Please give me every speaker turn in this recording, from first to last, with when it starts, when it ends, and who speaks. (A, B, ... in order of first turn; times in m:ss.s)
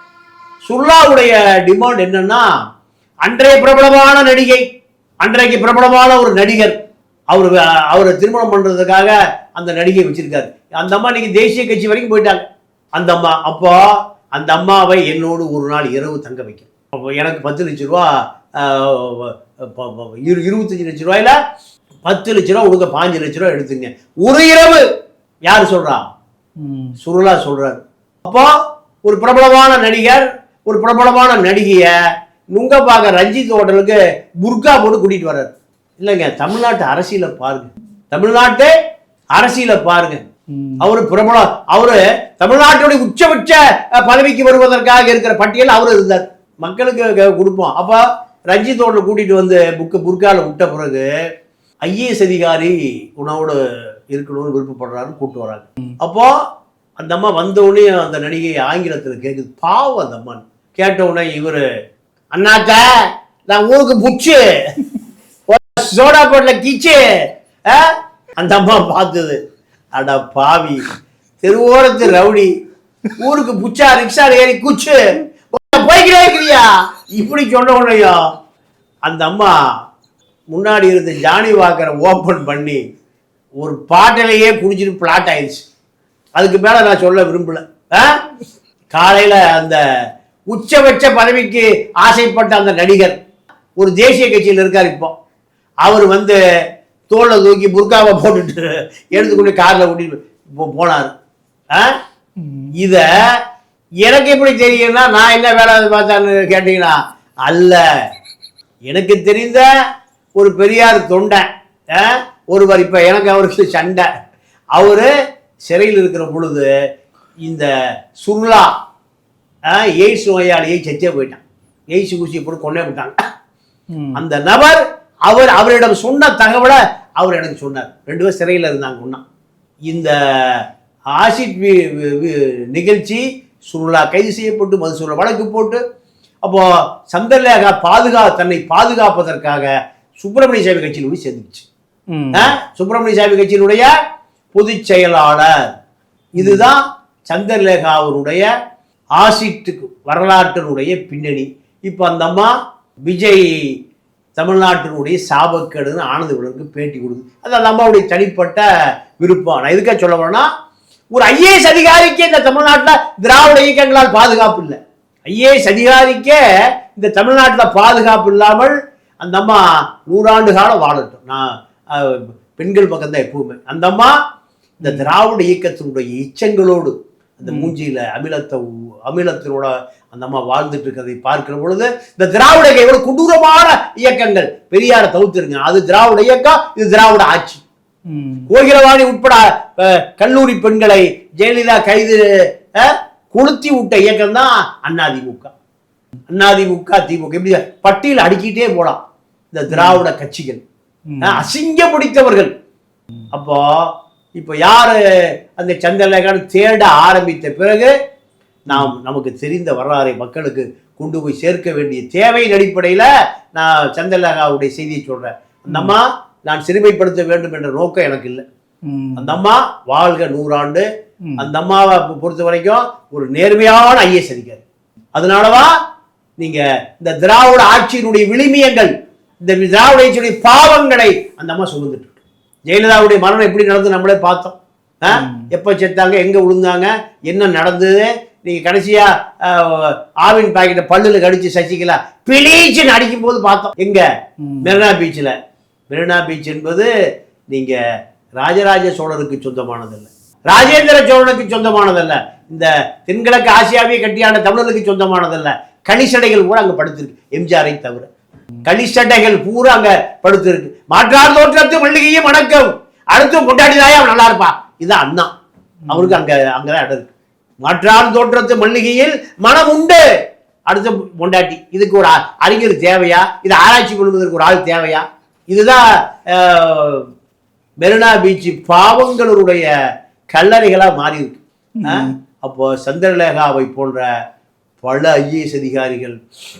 0:00.6-0:02.5 A
0:03.2-0:04.6 A
0:05.2-0:06.8 A
0:07.3-0:12.4 A
0:13.0-0:21.4 A
0:22.0-0:24.8 A
0:25.4-0:26.0 A
0:26.6-0:27.0 B
0:27.0-0:28.5 A
0:29.0-0:31.9 A
0:32.5-0:38.7 A
0:39.3-0:40.2 A
0:40.5-0:40.8 B
0:40.8-0:51.1 A
0:51.8-0:53.6 A
0:54.1-0:56.4 A
0:57.0-1:01.6 A
1:02.3-1:04.9 A
1:05.5-1:07.0 A
1:07.7-1:09.4 A
1:09.9-1:10.9 A
1:11.4-1:12.5 A
1:13.1-1:15.0 A
1:15.5-1:18.3 A
1:19.0-1:19.6 A
1:20.5-1:22.8 A
1:23.6-1:25.6 A
1:26.4-1:28.2 A
1:28.9-1:29.8 A
1:30.5-1:33.2 A
1:33.8-1:35.1 A
1:35.8-1:36.4 A
1:37.1-1:41.1 A
1:42.4-1:43.0 B
1:42.7-1:43.4 A
1:44.0-1:47.8 A
1:48.9-1:49.7 A
1:50.4-1:54.1 A
1:54.7-1:55.1 A
1:55.7-1:56.7 A
1:58.2-1:58.7 A
1:59.7-2:03.2 A
2:03.9-2:04.2 B
2:04.1-2:09.2 A
2:09.9-2:15.8 A
2:16.4-2:21.6 A
2:22.1-2:22.5 B
2:22.3-2:23.9 A
2:24.5-2:25.5 A
2:26.3-2:28.5 A
2:26.4-2:26.7 B
2:29.2-2:32.5 A
2:33.0-2:33.7 A
2:34.3-2:38.7 A
2:39.2-2:40.5 A
2:41.1-2:46.4 A
2:46.9-2:54.1 A
2:54.8-2:55.1 B
2:54.8-3:07.6 A
2:57.5-2:57.7 B
3:08.1-3:08.5 B
3:08.5-3:12.2 A
3:12.8-3:15.5 A
3:16.3-3:19.0 A
3:19.5-3:20.6 A
3:19.7-3:20.0 B
3:21.1-3:21.5 B
3:21.2-3:22.5 A
3:23.3-3:25.0 A
3:25.5-3:27.9 A
3:28.6-3:38.4 A
3:38.8-3:39.4 B
3:39.2-3:40.8 A
3:41.4-3:44.6 A
3:45.1-3:45.7 A
3:46.4-3:48.9 A
3:49.4-3:52.1 A
3:52.7-4:04.0 A
3:55.1-3:55.5 B
4:04.4-4:04.8 B
4:04.6-4:05.4 A
4:05.9-4:06.9 A
4:07.5-4:07.8 A
4:08.4-4:18.1 A
4:18.6-4:25.3 A
4:25.9-4:26.2 B
4:25.9-4:27.1 A
4:27.6-4:30.0 A
4:30.7-4:37.1 A
4:37.8-4:39.7 A
4:40.3-4:44.1 A
4:41.8-4:42.2 B
4:44.8-4:46.2 A